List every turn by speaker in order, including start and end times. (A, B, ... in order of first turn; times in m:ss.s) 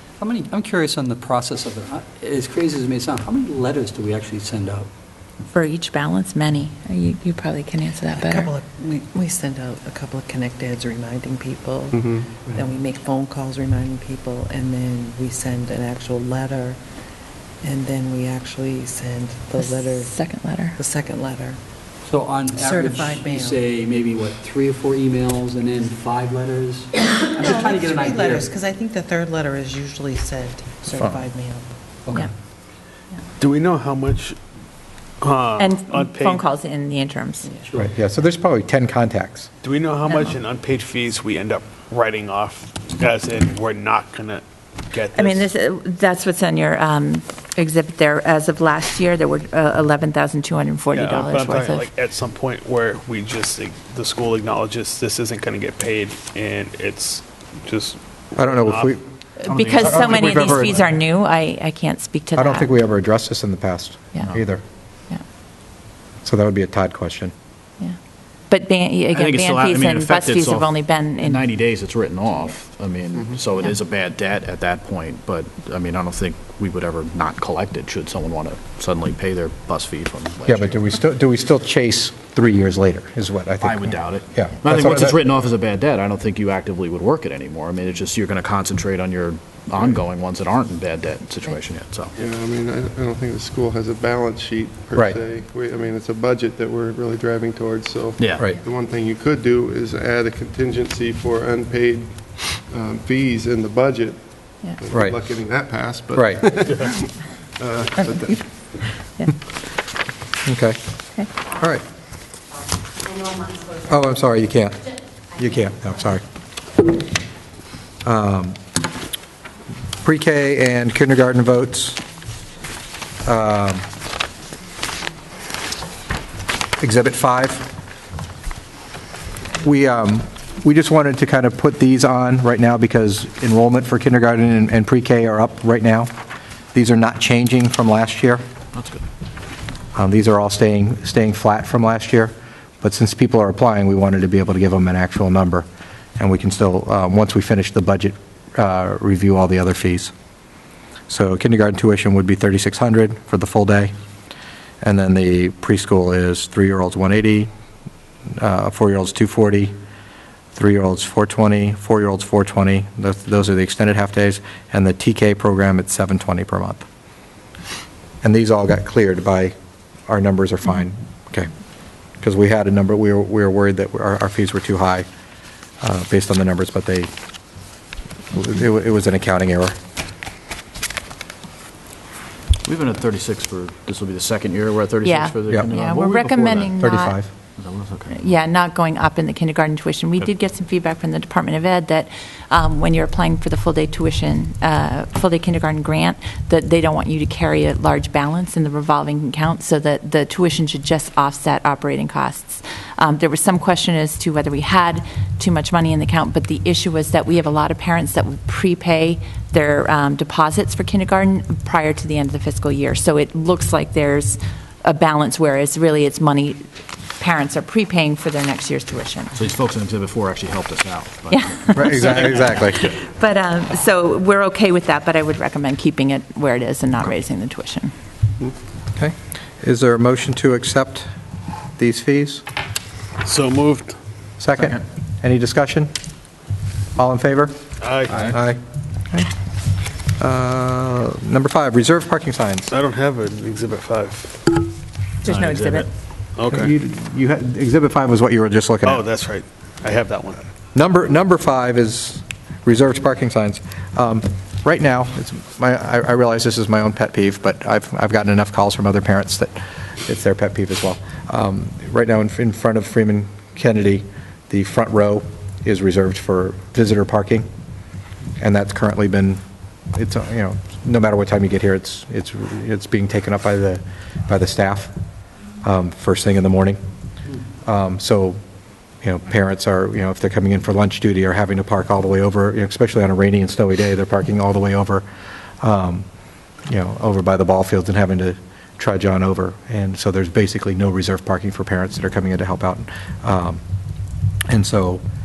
0:00.2-0:04.9 A
0:05.5-0:08.5 B
0:08.2-0:16.8 C
0:11.9-0:12.3 D
0:17.6-0:21.6 C
0:19.6-0:20.8 B
0:22.0-0:28.5 A
0:22.5-0:23.7 C
0:27.3-0:31.8 C
0:32.0-0:32.3 A
0:33.4-0:34.4 E
0:35.2-0:36.4 E
0:35.6-0:37.5 B
0:37.7-0:39.5 F
0:39.6-0:45.5 E
0:40.1-0:40.4 B
0:45.1-0:51.9 B
0:50.9-0:59.0 E
0:58.4-0:59.0 F
0:59.4-1:02.7 B
0:59.5-1:00.4 G
0:59.8-1:00.7 F
1:02.4-1:04.6 F
1:06.2-1:07.3 F
1:08.5-1:11.4 B
1:09.1-1:20.8 G
1:20.4-1:25.2 F
1:23.6-1:32.1 G
1:32.2-1:48.5 D
1:38.2-1:38.6 G
1:44.9-1:45.2 F
1:46.1-1:46.5 F
1:50.4-1:50.8 F
1:51.5-1:51.8 F
1:53.8-1:56.2 F
1:58.0-1:58.6 F
2:00.0-2:02.0 F
2:03.2-2:03.8 F
2:06.8-2:07.6 F
2:09.6-2:16.1 F
2:16.7-2:18.4 F
2:18.7-2:19.0 G
2:19.9-2:25.7 F
2:26.2-2:30.1 F
2:31.1-2:33.9 F
2:34.8-2:37.5 F
2:38.4-2:39.7 F
2:40.5-2:46.8 F
2:48.2-2:49.5 F
2:50.1-2:51.5 F
2:52.2-2:55.0 F
2:55.8-2:57.1 F
2:58.3-2:59.8 F
3:02.6-3:06.8 G
3:05.0-3:07.2 B
3:06.8-3:07.3 F
3:07.6-3:08.2 G
3:08.1-3:39.4 B
3:39.3-3:42.3 G
3:41.3-3:47.9 B
3:41.7-3:42.9 F
3:49.0-3:51.1 F
3:51.8-3:52.4 F
3:53.2-3:53.9 E
3:54.4-3:55.9 F
3:57.0-3:57.7 F
3:57.8-3:58.3 E
3:58.2-3:59.3 F
4:00.2-4:02.7 F
4:02.7-4:04.6 E
4:05.2-4:05.9 B
4:05.2-4:05.9 G
4:06.4-4:06.7 E
4:06.4-4:09.0 F
4:08.8-4:10.4 E
4:10.7-4:19.5 F
4:20.0-4:27.4 F
4:28.4-4:29.4 F
4:29.9-4:34.9 F
4:35.6-4:36.8 F
4:37.6-4:38.4 F
4:39.0-4:45.0 F
4:45.6-4:46.0 F
4:46.7-4:53.6 F
4:54.5-4:55.0 F